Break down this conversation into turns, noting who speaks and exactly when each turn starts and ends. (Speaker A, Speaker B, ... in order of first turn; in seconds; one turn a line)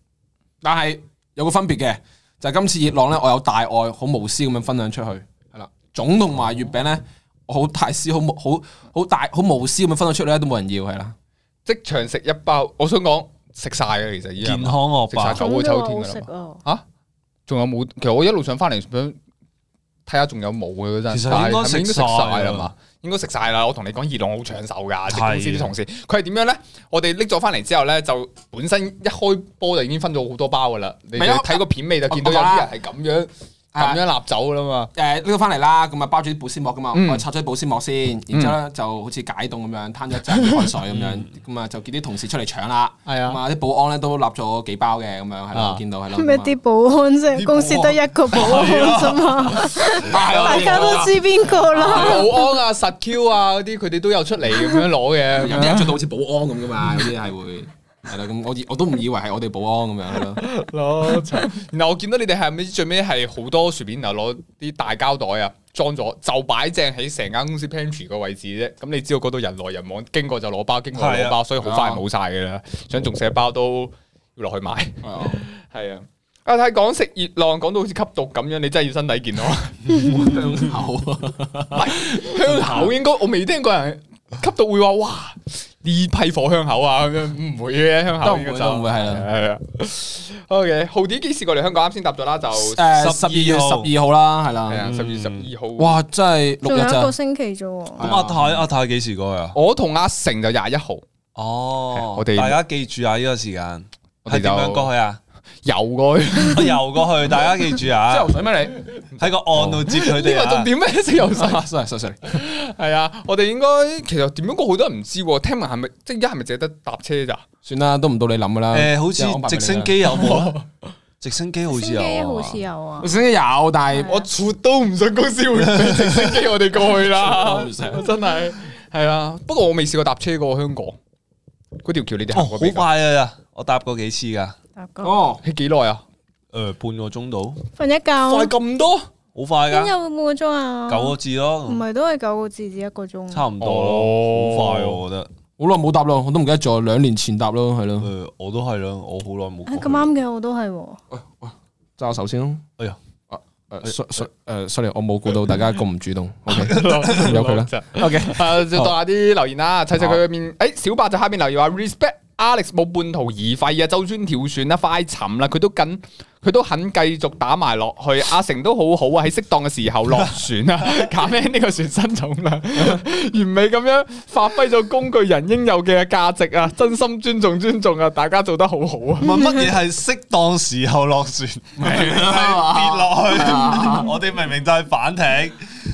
Speaker A: 0.6-11.1
Speaker B: 11.7-16.8
Speaker C: 14.4-15.4
Speaker D: 15.4-16.6
Speaker B: 17.5-19.2
Speaker B: 20.1-34.9
Speaker C: 21.1-22.7
Speaker C: 25.1-25.7
Speaker A: 31.2-32.7
Speaker A: 33.8-34.0
Speaker A: 35.0-46.6
Speaker B: 36.9-37.2
Speaker B: 38.3-38.6
Speaker B: 40.3-40.7
Speaker C: 40.9-41.3
Speaker B: 43.1-43.4
Speaker B: 45.5-45.8
Speaker D: 46.1-52.5
Speaker C: 47.4-49.6
Speaker A: 49.8-52.3
Speaker B: 50.1-56.0
Speaker A: 55.4-60.4
Speaker B: 60.4-80.4
Speaker C: 70.9-71.4
Speaker A: 71.6-72.0
Speaker A: 75.0-75.4
Speaker A: 80.1-82.9
Speaker B: 81.7-92.9
Speaker A: 88.2-89.3
Speaker A: 92.5-94.9
Speaker C: 92.9-93.9
Speaker B: 94.7-96.0
Speaker C: 94.8-95.5
Speaker A: 95.8-97.1
Speaker D: 96.6-98.1
Speaker A: 98.0-98.5
Speaker C: 98.0-99.6
Speaker B: 99.5-101.0
Speaker C: 101.3-105.2
Speaker B: 101.9-102.6
Speaker B: 104.2-104.9
Speaker B: 105.7-106.8
Speaker C: 106.4-108.3
Speaker A: 108.1-108.9
Speaker C: 109.2-110.7
Speaker B: 109.7-111.7
Speaker A: 111.3-112.4
Speaker B: 112.3-117.4
Speaker A: 117.7-120.1
Speaker C: 118.7-120.6
Speaker B: 120.1-120.7
Speaker C: 121.2-122.6
Speaker D: 121.7-123.1
Speaker A: 123.0-124.2
Speaker D: 123.9-124.3
Speaker B: 124.0-131.0
Speaker C: 125.8-126.3
Speaker A: 127.2-128.1
Speaker B: 131.8-132.9
Speaker C: 132.3-134.6
Speaker D: 134.8-135.2
Speaker A: 135.0-135.4
Speaker B: 135.4-136.0
Speaker C: 136.5-137.6
Speaker D: 137.8-138.5
Speaker B: 138.3-139.1
Speaker C: 139.3-139.9
Speaker D: 139.7-143.5
Speaker C: 140.9-141.8
Speaker C: 143.3-145.3
Speaker B: 143.6-145.0
Speaker A: 145.6-148.1
Speaker C: 148.0-150.1
Speaker D: 149.7-151.0
Speaker A: 151.1-152.6
Speaker A: 153.3-158.9
Speaker B: 156.5-179.5
Speaker C: 156.9-157.3
Speaker C: 179.2-185.6
Speaker A: 181.8-184.2